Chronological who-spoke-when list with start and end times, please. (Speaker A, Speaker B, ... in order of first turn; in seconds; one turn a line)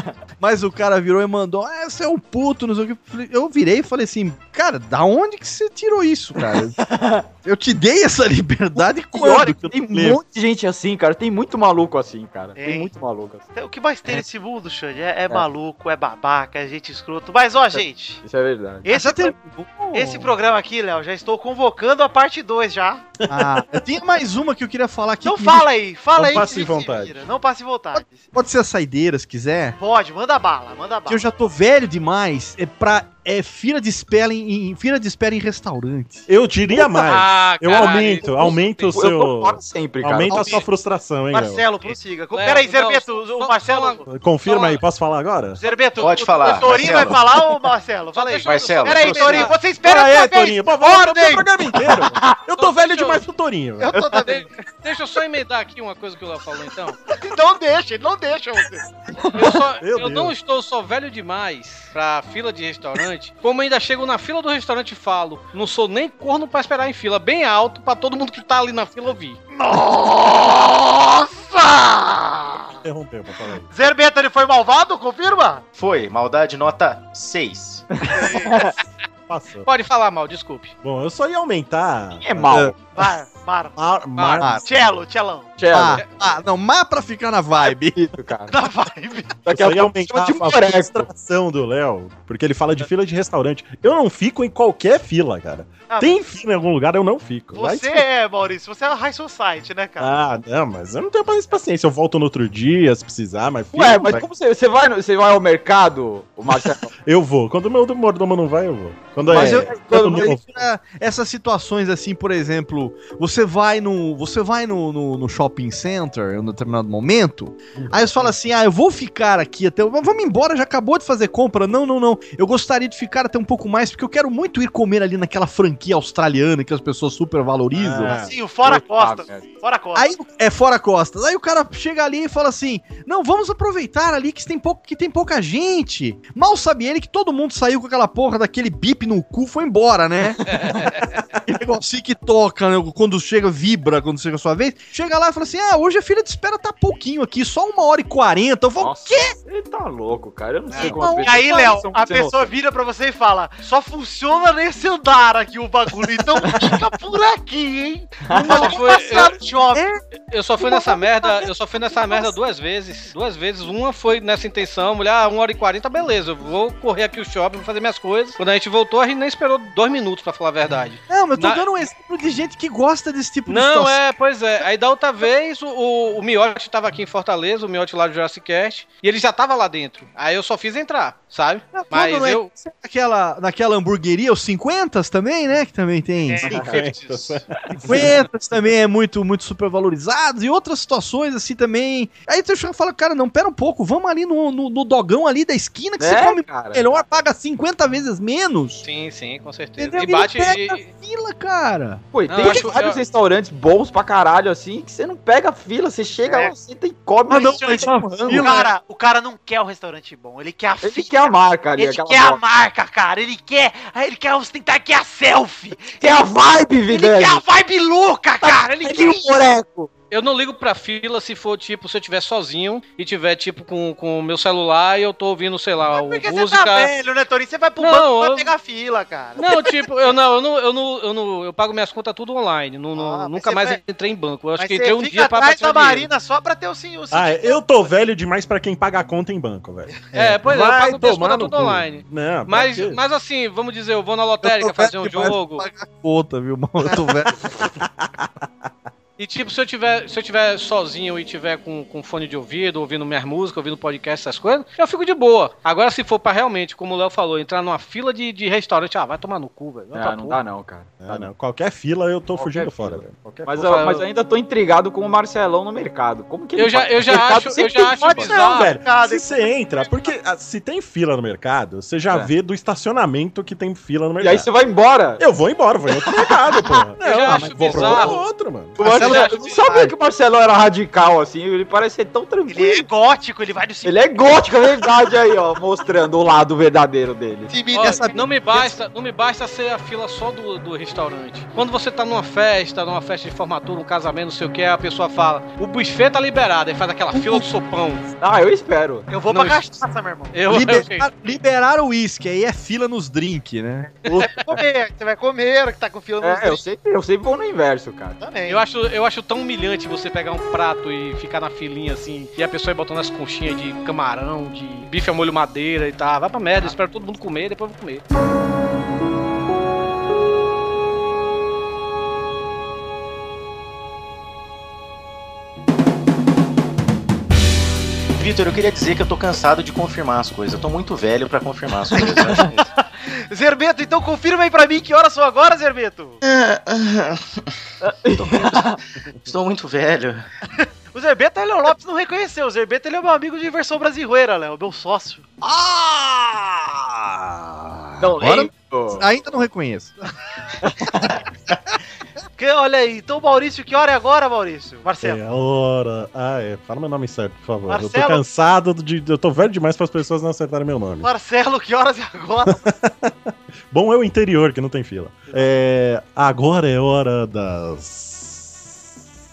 Speaker A: 0.4-6.8
Speaker B: 6.8-7.2
Speaker A: 7.4-10.2
Speaker B: 9.1-13.4
Speaker C: 12.6-12.9
Speaker C: 13.5-18.2
Speaker B: 17.7-18.9
Speaker C: 18.8-19.3
Speaker A: 18.9-20.3
Speaker C: 19.9-23.0
Speaker D: 23.2-23.5
Speaker A: 23.3-25.7
Speaker C: 25.2-28.2
Speaker D: 26.1-27.2
Speaker A: 27.9-29.8
Speaker C: 29.8-31.2
Speaker A: 31.1-36.3
Speaker D: 36.3-41.6
Speaker E: 37.0-38.9
Speaker B: 37.7-40.6
Speaker A: 40.3-40.6
Speaker C: 41.3-44.7
Speaker E: 42.3-44.7
Speaker D: 44.1-45.6
Speaker C: 45.6-51.5
Speaker F: 46.0-47.3
Speaker E: 48.1-49.5
Speaker F: 48.4-49.6
Speaker D: 49.8-54.0
Speaker E: 52.6-53.2
Speaker C: 53.8-54.5
Speaker E: 54.2-57.0
Speaker C: 57.1-58.9
Speaker E: 59.3-69.4
Speaker D: 59.8-60.3
Speaker C: 69.5-72.7
Speaker D: 72.8-73.7
Speaker C: 73.7-75.6
Speaker F: 75.7-77.9
Speaker B: 77.9-78.8
Speaker C: 78.1-78.5
Speaker D: 79.3-79.7
Speaker E: 79.6-80.7
Speaker D: 80.8-82.7
Speaker B: 82.2-82.8
Speaker C: 82.9-83.8
Speaker D: 83.8-84.6
Speaker E: 84.2-84.5
Speaker A: 84.4-84.6
Speaker C: 84.6-85.5
Speaker B: 85.6-86.0
Speaker A: 85.7-88.0
Speaker E: 86.0-86.3
Speaker B: 87.9-88.5
Speaker C: 88.5-89.4
Speaker B: 89.4-91.1
Speaker D: 89.5-98.0
Speaker C: 95.9-96.2
Speaker C: 97.5-100.1
Speaker D: 100.0-104.2
Speaker B: 103.7-106.9
Speaker D: 106.5-110.5
Speaker B: 109.3-110.4
Speaker A: 109.3-128.2
Speaker D: 117.8-118.3
Speaker D: 127.7-128.3
Speaker C: 128.1-130.1
Speaker B: 128.6-129.5
Speaker A: 129.9-140.4
Speaker E: 140.5-141.2
Speaker A: 141.4-149.3
Speaker B: 148.8-152.5
Speaker E: 150.7-151.0
Speaker A: 150.8-151.8
Speaker C: 151.2-159.8
Speaker B: 158.3-158.6
Speaker A: 158.4-159.0
Speaker E: 158.4-159.4
Speaker A: 159.7-160.0
Speaker E: 160.3-171.6
Speaker A: 160.6-162.3
Speaker A: 171.1-174.0
Speaker E: 173.5-182.5
Speaker A: 181.7-186.5
Speaker C: 186.3-187.4
Speaker B: 186.4-186.7
Speaker D: 186.5-188.2
Speaker A: 187.8-198.8
Speaker B: 196.0-197.0
Speaker E: 198.8-200.8
Speaker A: 199.8-202.0
Speaker B: 202.1-208.5
Speaker E: 202.3-203.0
Speaker C: 206.1-206.5
Speaker A: 207.3-208.7
Speaker C: 208.3-216.2
Speaker B: 210.8-212.4
Speaker B: 215.8-217.4
Speaker C: 216.9-219.2
Speaker B: 218.4-219.9
Speaker E: 220.1-226.9
Speaker C: 225.8-229.8
Speaker E: 227.8-228.5
Speaker E: 229.4-236.1
Speaker C: 232.9-233.8
Speaker C: 234.6-237.9
Speaker D: 237.1-243.0
Speaker E: 240.1-245.7
Speaker A: 244.4-247.4
Speaker D: 247.6-248.3
Speaker E: 249.2-260.4
Speaker B: 259.9-261.3
Speaker D: 261.0-263.7
Speaker B: 262.4-268.3
Speaker E: 263.6-264.0
Speaker E: 266.6-268.7
Speaker C: 267.7-270.1
Speaker D: 268.2-274.5
Speaker B: 274.2-275.2
Speaker D: 275.2-278.8
Speaker B: 275.9-276.8
Speaker E: 277.0-278.2
Speaker A: 277.3-278.2
Speaker A: 278.8-279.9
Speaker B: 278.8-282.9
Speaker E: 278.9-279.6
Speaker C: 282.5-284.4
Speaker B: 283.8-287.5
Speaker C: 287.5-288.2
Speaker E: 287.7-298.1
Speaker A: 287.8-288.7
Speaker A: 297.1-297.4
Speaker B: 298.2-299.1
Speaker C: 299.1-300.3
Speaker E: 299.3-299.6
Speaker E: 300.3-301.1
Speaker A: 300.5-304.3
Speaker C: 304.3-306.6
Speaker B: 306.2-308.2
Speaker C: 308.2-308.6
Speaker E: 308.5-318.0
Speaker F: 328.2-332.7
Speaker C: 332.3-336.2
Speaker F: 336.2-337.4
Speaker B: 337.8-338.8
Speaker F: 338.1-340.3
Speaker C: 340.6-345.2
Speaker A: 345.4-346.8
Speaker B: 348.0-349.1
Speaker A: 348.1-350.0
Speaker B: 350.6-351.1
Speaker C: 352.4-355.2
Speaker D: 355.0-361.1
Speaker C: 357.7-358.2
Speaker C: 361.0-362.6
Speaker D: 362.5-363.1
Speaker D: 363.7-368.5